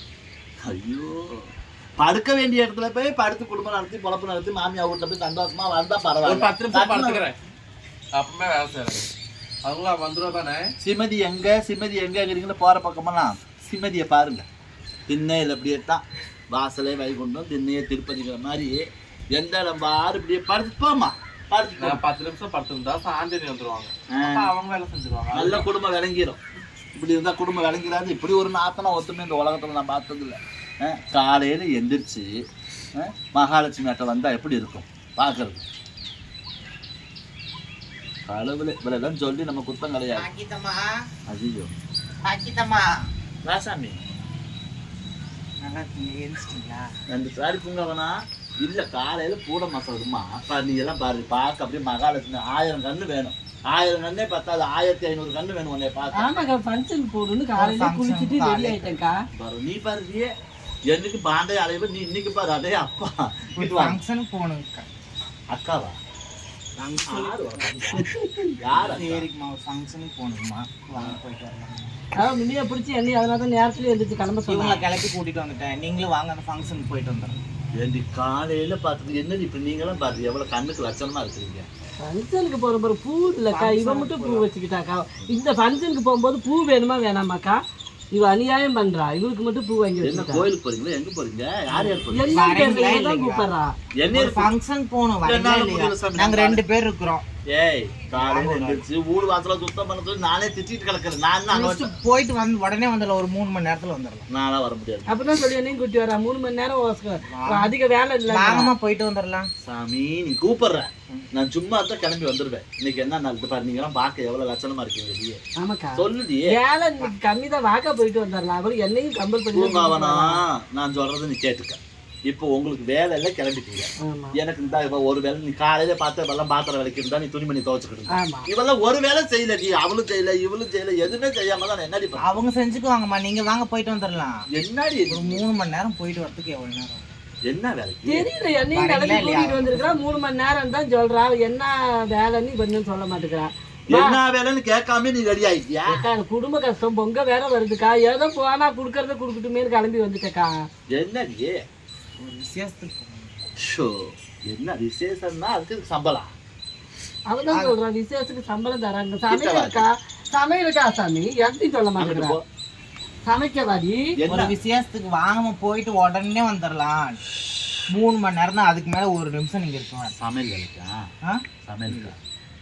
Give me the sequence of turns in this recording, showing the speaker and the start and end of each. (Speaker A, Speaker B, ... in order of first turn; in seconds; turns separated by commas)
Speaker A: 0.6-1.5, Speaker A: 2.0-7.2, Speaker B: 6.2-7.4, Speaker B: 8.2-9.1, Speaker B: 9.6-10.7, Speaker A: 10.8-14.5, Speaker A: 15.1-22.0, Speaker B: 21.8-25.7, Speaker A: 24.1-24.5, Speaker A: 25.3-26.4, Speaker A: 26.9-32.3, Speaker A: 33.0-35.6, Speaker A: 38.3-40.3, Speaker C: 40.1-40.9, Speaker A: 41.3-41.7, Speaker C: 42.3-42.9, Speaker A: 43.5-44.0, Speaker C: 45.6-46.9, Speaker A: 47.1-56.4, Speaker D: 56.2-59.2, Speaker C: 57.6-58.9, Speaker A: 59.3-60.3, Speaker A: 60.9-64.0, Speaker C: 63.6-64.9, Speaker A: 65.5-66.0, Speaker C: 66.8-68.0, Speaker A: 67.1-68.0, Speaker D: 68.2-68.5, Speaker A: 68.6-69.3, Speaker C: 68.8-72.0, Speaker D: 72.2-74.8, Speaker C: 74.5-77.4, Speaker A: 77.8-81.7, Speaker D: 82.0-87.6, Speaker C: 83.5-84.5, Speaker D: 88.1-90.5, Speaker A: 90.0-92.5, Speaker D: 91.8-93.7, Speaker C: 92.3-93.5, Speaker A: 94.0-94.5, Speaker C: 94.1-97.2, Speaker A: 95.2-96.6, Speaker A: 97.5-101.9, Speaker C: 98.2-98.8, Speaker C: 101.5-104.3, Speaker A: 104.3-105.2, Speaker D: 105.1-108.7, Speaker C: 107.3-107.7, Speaker C: 108.3-109.5, Speaker A: 109.6-115.4, Speaker D: 115.6-120.4, Speaker A: 116.0-116.5, Speaker A: 119.5-132.3, Speaker D: 124.0-124.4, Speaker D: 128.1-128.5, Speaker C: 132.2-134.4, Speaker A: 134.6-135.4, Speaker C: 135.1-137.1, Speaker A: 137.5-138.3, Speaker D: 138.1-144.2, Speaker C: 138.8-139.9, Speaker A: 143.9-146.1, Speaker D: 145.9-150.6, Speaker A: 150.9-151.6, Speaker C: 152.2-153.3, Speaker A: 153.6-156.3, Speaker D: 157.3-162.4, Speaker A: 159.3-159.9, Speaker A: 162.0-162.4, Speaker D: 163.3-164.1, Speaker A: 164.2-164.6, Speaker C: 164.3-167.2, Speaker C: 167.9-170.1, Speaker A: 170.1-171.0, Speaker C: 171.3-172.1, Speaker A: 171.7-172.2